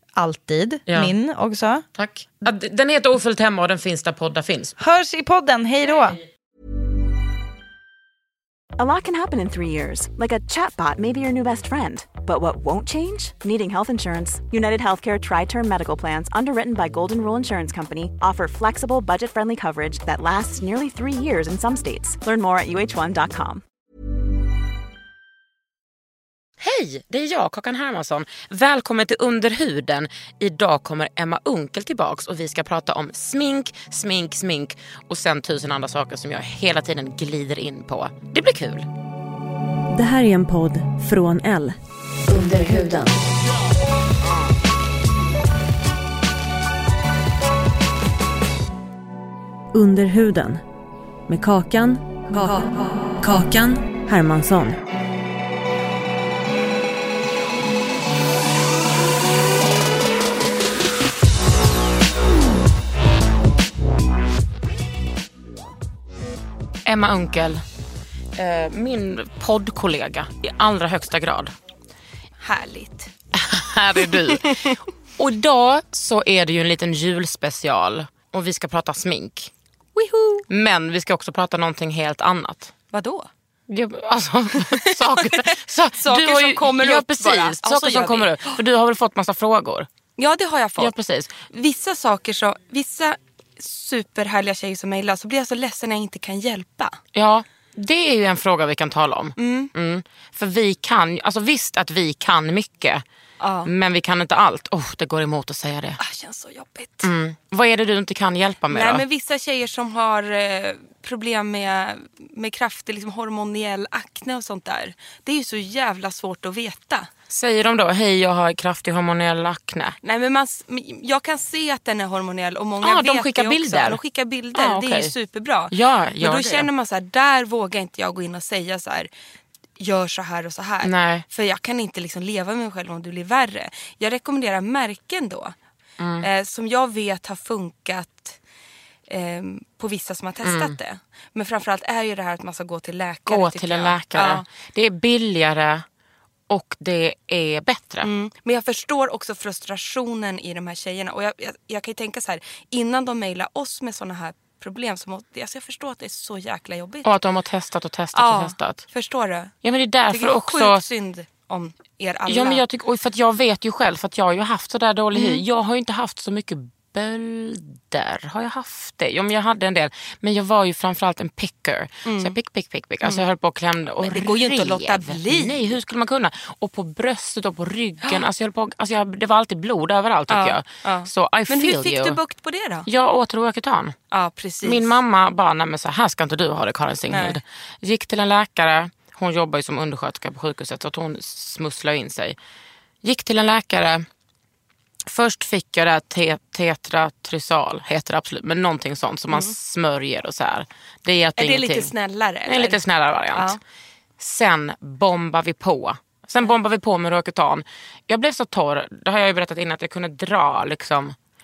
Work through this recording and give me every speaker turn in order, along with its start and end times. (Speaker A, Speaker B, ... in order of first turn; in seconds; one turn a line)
Speaker A: 0.1-1.8
Speaker B: 0.9-1.1
Speaker B: 1.9-4.7
Speaker A: 4.8-6.2
Speaker C: 8.8-23.6
Speaker B: 26.6-38.9
Speaker D: 39.9-41.7
Speaker D: 42.3-43.1
Speaker D: 49.7-50.6
Speaker D: 51.3-54.8
Speaker B: 66.8-67.6
Speaker B: 68.3-71.5
Speaker E: 72.4-73.1
Speaker B: 73.3-79.5
Speaker E: 74.1-74.7
Speaker E: 80.0-80.5
Speaker B: 80.5-82.7
Speaker E: 82.9-83.3
Speaker B: 83.7-89.9
Speaker E: 84.6-88.6
Speaker E: 90.2-90.9
Speaker B: 90.8-91.3
Speaker E: 91.5-97.0
Speaker B: 97.1-103.0
Speaker E: 99.4-99.7
Speaker E: 103.4-103.7
Speaker B: 103.6-106.0
Speaker E: 106.0-107.1
Speaker B: 107.0-109.0
Speaker E: 108.7-117.1
Speaker B: 117.3-120.0
Speaker E: 120.0-129.1
Speaker B: 122.8-124.0
Speaker B: 124.5-125.1
Speaker B: 125.7-126.7
Speaker E: 129.8-135.5
Speaker B: 130.8-131.2
Speaker B: 136.0-136.3
Speaker E: 136.2-138.4
Speaker E: 139.1-144.4
Speaker B: 140.4-140.8
Speaker B: 143.3-145.8
Speaker B: 146.5-148.1
Speaker E: 148.0-157.1
Speaker B: 157.0-158.8
Speaker E: 158.1-159.6
Speaker B: 159.6-160.8
Speaker E: 160.1-162.6
Speaker B: 162.3-182.2
Speaker E: 165.1-165.4
Speaker E: 172.0-172.3
Speaker E: 174.0-175.8
Speaker E: 180.3-182.9
Speaker B: 182.8-183.9
Speaker E: 184.1-184.9
Speaker B: 184.6-192.4
Speaker E: 187.1-187.4
Speaker B: 193.0-194.1
Speaker B: 195.1-201.9
Speaker E: 201.4-202.8
Speaker B: 202.4-203.6
Speaker E: 203.3-203.6
Speaker B: 204.2-211.1